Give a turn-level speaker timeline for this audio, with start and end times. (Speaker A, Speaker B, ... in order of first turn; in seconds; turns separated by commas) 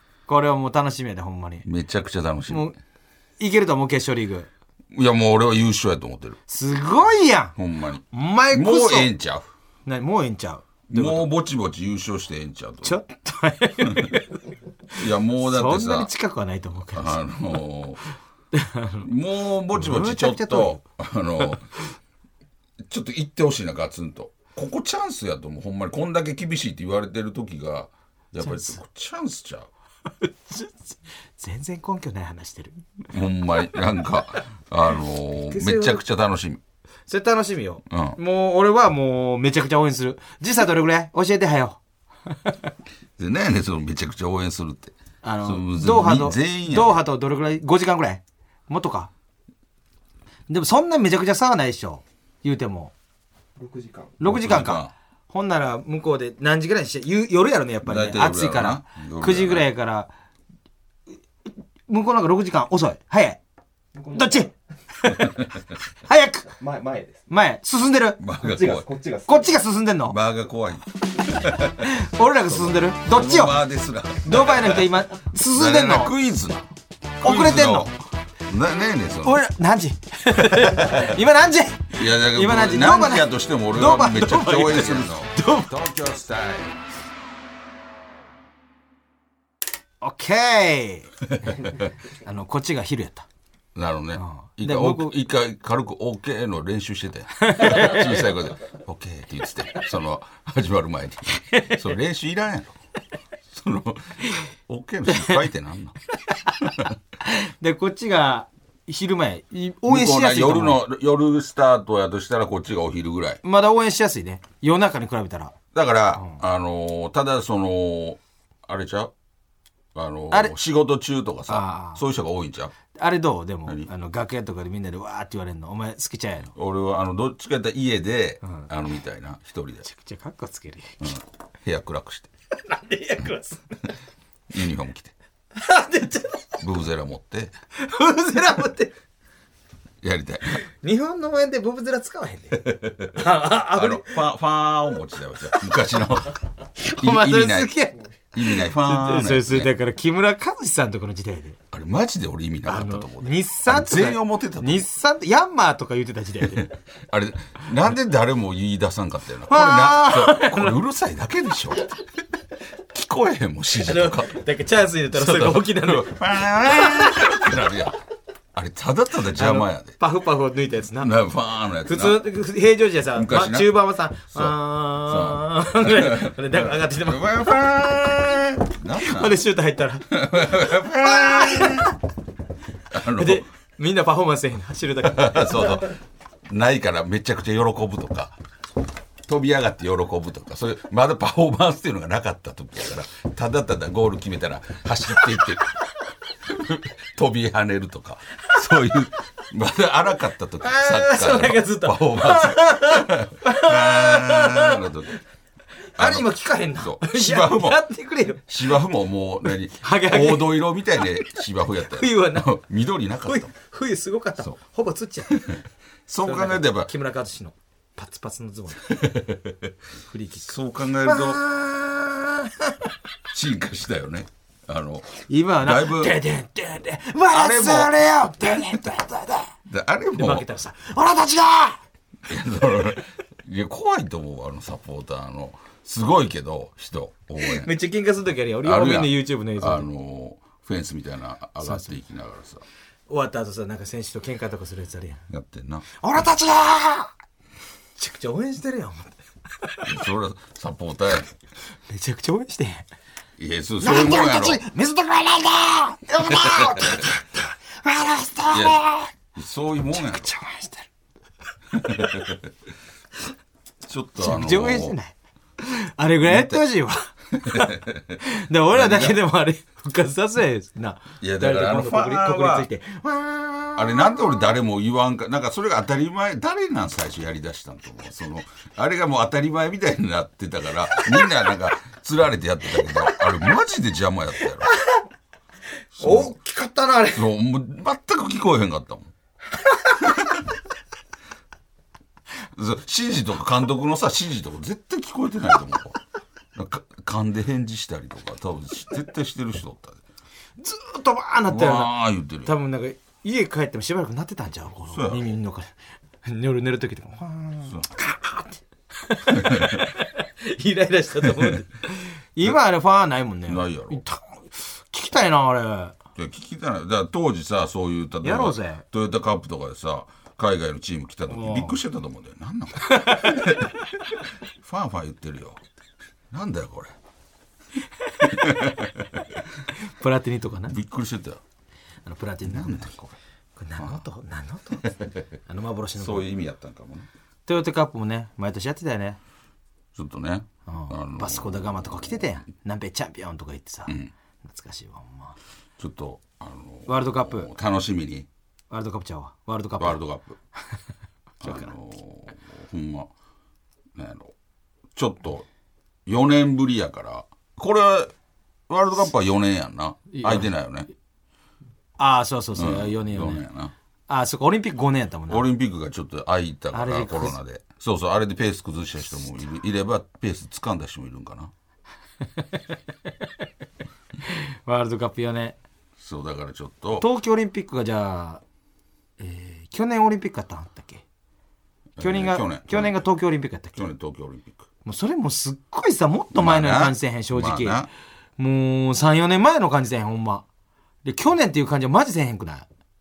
Speaker A: 0.3-1.6, Speaker B: 1.6-2.7, Speaker A: 2.5-2.8, Speaker A: 3.4-4.5, Speaker B: 4.9-6.4, Speaker A: 6.5-7.5, Speaker B: 7.5-9.5, Speaker A: 8.1-9.1, Speaker A: 9.8-11.3, Speaker B: 10.9-13.0, Speaker A: 12.8-14.4, Speaker B: 13.8-14.2, Speaker B: 14.9-16.1, Speaker A: 15.4-17.2, Speaker B: 16.9-18.0, Speaker A: 18.5-19.1, Speaker B: 19.0-21.7, Speaker A: 19.7-20.8, Speaker B: 22.8-29.7, Speaker A: 28.4-28.8, Speaker A: 30.2-32.8, Speaker B: 33.1-36.6, Speaker A: 35.4-36.0, Speaker A: 37.1-41.8, Speaker B: 37.9-38.2, Speaker B: 43.2-47.0, Speaker A: 45.2-49.1, Speaker A: 50.5-52.9, Speaker C: 53.6-54.2, Speaker A: 54.2-60.1, Speaker B: 54.2-54.9, Speaker B: 57.8-59.7, Speaker A: 61.9-63.4, Speaker C: 63.9-64.5, Speaker A: 64.1-65.4, Speaker B: 65.1-65.6, Speaker A: 66.0-66.5, Speaker C: 66.4-67.3, Speaker A: 67.3-68.2, Speaker B: 68.2-68.9, Speaker C: 68.4-69.6, Speaker A: 69.2-70.2, Speaker B: 70.1-71.9, Speaker A: 71.8-73.6, Speaker B: 72.5-76.6, Speaker A: 74.2-76.1, Speaker A: 77.2-77.9, Speaker B: 77.2-77.9, Speaker B: 78.5-79.4, Speaker A: 79.2-85.7, Speaker B: 80.4-81.1, Speaker B: 81.9-86.8, Speaker A: 90.0-93.2, Speaker B: 93.7-102.8, Speaker A: 94.2-95.1, Speaker A: 97.4-98.2, Speaker A: 101.5-101.8, Speaker B: 103.5-106.0, Speaker A: 105.1-105.4, Speaker B: 106.6-106.9, Speaker A: 107.2-110.8, Speaker B: 109.8-113.4, Speaker A: 113.4-115.5, Speaker B: 115.7-119.1, Speaker B: 119.9-122.7, Speaker A: 120.3-120.5, Speaker A: 121.5-122.0, Speaker A: 122.9-126.5, Speaker B: 126.5-129.8, Speaker A: 129.8-131.1, Speaker B: 131.0-132.3, Speaker A: 132.6-133.9, Speaker B: 134.5-135.1, Speaker A: 135.5-136.5, Speaker B: 136.6-137.5, Speaker A: 137.8-138.9, Speaker B: 140.0-140.6, Speaker A: 140.8-144.2, Speaker B: 142.6-146.4, Speaker A: 146.8-151.6, Speaker B: 147.0-147.7, Speaker B: 148.3-149.7, Speaker B: 151.7-154.9, Speaker A: 152.7-156.7, Speaker B: 156.4-161.8, Speaker A: 159.5-160.8, Speaker B: 162.9-164.4, Speaker A: 163.8-167.4, Speaker B: 165.1-168.0, Speaker B: 168.5-169.9, Speaker A: 169.3-171.2, Speaker B: 171.0-172.2, Speaker A: 171.8-178.4, Speaker B: 173.1-173.8, Speaker B: 174.3-179.4, Speaker A: 179.0-181.9, Speaker B: 180.1-181.9, Speaker B: 182.9-183.4, Speaker A: 183.1-185.9, Speaker B: 185.0-185.9, Speaker B: 186.5-188.4, Speaker B: 189.2-195.7, Speaker B: 196.4-205.2, Speaker A: 200.6-204.9, Speaker A: 205.9-208.5, Speaker B: 206.0-207.9, Speaker B: 208.5-213.5, Speaker A: 209.8-210.7, Speaker A: 211.8-212.5, Speaker A: 213.2-215.4, Speaker B: 215.3-216.9, Speaker A: 216.2-219.0, Speaker B: 218.9-219.7, Speaker A: 220.1-220.5, Speaker B: 220.4-221.4, Speaker A: 221.0-222.9, Speaker B: 223.3-226.2, Speaker A: 225.2-229.5, Speaker B: 227.3-227.9, Speaker B: 229.7-230.4, Speaker A: 230.2-231.8, Speaker B: 232.3-237.7, Speaker A: 237.4-239.9, Speaker B: 238.6-242.6, Speaker A: 241.6-242.0, Speaker A: 243.1-245.2, Speaker B: 245.3-245.9, Speaker A: 245.9-247.1, Speaker A: 248.0-249.9, Speaker B: 249.8-251.3, Speaker A: 251.9-252.8, Speaker B: 253.4-254.6, Speaker A: 253.8-259.1, Speaker B: 256.2-257.0, Speaker B: 258.5-258.8, Speaker B: 259.3-260.3, Speaker A: 259.9-260.9, Speaker B: 261.7-262.5, Speaker B: 263.8-264.9, Speaker A: 264.2-274.4, Speaker B: 266.2-266.6, Speaker B: 267.3-269.2, Speaker B: 271.2-272.7, Speaker B: 273.8-284.7, Speaker A: 284.7-284.9, Speaker B: 286.0-286.4, Speaker A: 286.0-287.3, Speaker B: 287.1-289.1, Speaker A: 289.7-290.1, Speaker B: 292.5-296.0, Speaker B: 296.5-300.0, Speaker A: 300.6-301.9, Speaker B: 301.5-302.5, Speaker A: 302.4-305.7, Speaker B: 304.9-305.2, Speaker A: 306.2-315.9, Speaker B: 309.3-309.9, Speaker B: 313.5-314.0, Speaker B: 316.1-323.7, Speaker A: 318.2-318.8, Speaker A: 321.3-321.8, Speaker A: 322.8-323.6, Speaker B: 324.6-325.6, Speaker B: 326.3-326.9, Speaker B: 328.2-329.2, Speaker A: 328.2-328.5, Speaker A: 329.7-330.7, Speaker B: 330.7-331.4, Speaker A: 332.0-332.9, Speaker B: 332.4-333.2, Speaker A: 333.6-334.9, Speaker B: 333.8-334.0, Speaker B: 334.8-335.2, Speaker A: 335.5-336.3, Speaker B: 336.0-337.1, Speaker A: 337.4-339.2, Speaker B: 339.9-342.3, Speaker A: 340.7-345.4, Speaker B: 345.8-348.3, Speaker A: 346.9-347.5, Speaker A: 348.7-350.0, Speaker B: 349.8-350.4, Speaker B: 351.4-353.1, Speaker A: 351.4-351.7, Speaker B: 353.9-354.3, Speaker B: 354.9-355.5, Speaker B: 356.1-358.1, Speaker B: 358.7-360.9, Speaker A: 360.1-360.5, Speaker A: 362.0-363.4, Speaker B: 362.6-363.7, Speaker A: 364.1-365.4, Speaker B: 365.3-371.5, Speaker A: 366.7-367.4, Speaker A: 374.2-375.6, Speaker B: 376.0-377.1, Speaker A: 377.0-378.4, Speaker A: 379.2-381.0, Speaker B: 381.9-383.1, Speaker A: 382.0-383.8, Speaker B: 383.7-384.6, Speaker A: 384.8-387.8, Speaker B: 386.3-387.9, Speaker A: 388.4-390.4, Speaker A: 391.0-392.7